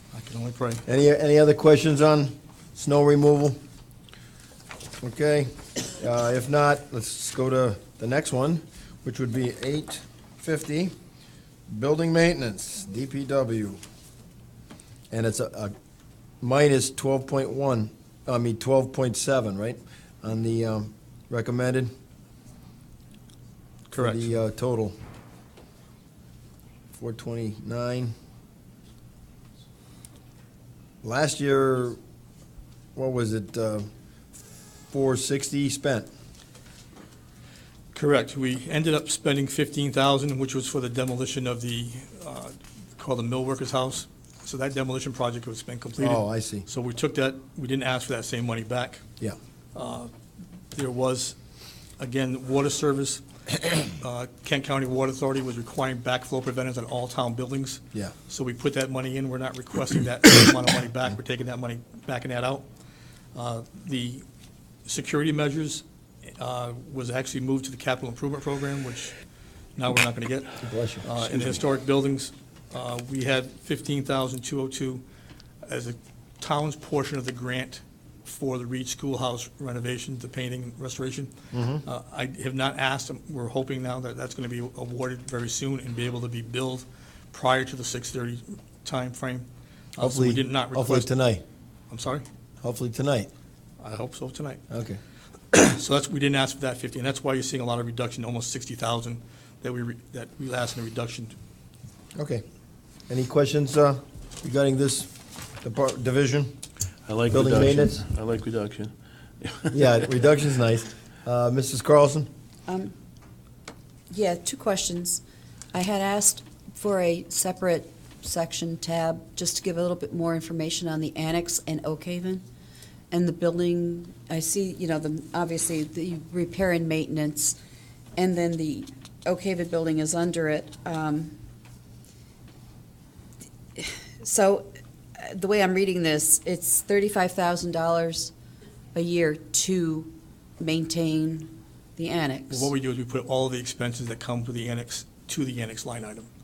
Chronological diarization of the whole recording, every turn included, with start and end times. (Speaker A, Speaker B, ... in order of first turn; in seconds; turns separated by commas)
Speaker A: 0.1-0.8, Speaker B: 0.8-3.6, Speaker B: 5.0-10.9, Speaker B: 11.7-13.8, Speaker B: 15.1-15.7, Speaker B: 16.4-21.9, Speaker A: 23.9-24.3, Speaker B: 24.0-24.9, Speaker B: 26.9-28.1, Speaker B: 31.0-32.0, Speaker B: 33.0-33.9, Speaker B: 34.9-36.1, Speaker A: 37.9-49.0, Speaker B: 46.0-46.6, Speaker A: 49.7-50.1, Speaker A: 50.7-51.4, Speaker A: 52.0-62.6, Speaker A: 63.3-64.2, Speaker A: 64.8-65.8, Speaker A: 66.4-69.1, Speaker A: 69.8-75.0, Speaker B: 70.6-71.5, Speaker A: 75.7-81.3, Speaker B: 81.5-81.8, Speaker A: 81.8-91.1, Speaker B: 90.0-91.4, Speaker A: 91.9-92.2, Speaker B: 92.6-93.3, Speaker A: 93.8-94.6, Speaker B: 94.7-95.0, Speaker A: 95.5-101.3, Speaker B: 102.2-102.4, Speaker B: 103.1-105.1, Speaker B: 105.6-106.5, Speaker C: 107.1-108.9, Speaker B: 107.3-108.0, Speaker C: 109.4-109.7, Speaker B: 109.7-112.3, Speaker D: 112.7-112.9, Speaker D: 114.1-122.4, Speaker D: 123.1-127.6, Speaker D: 128.2-131.3, Speaker D: 133.8-138.3, Speaker D: 138.9-142.7, Speaker A: 142.5-146.3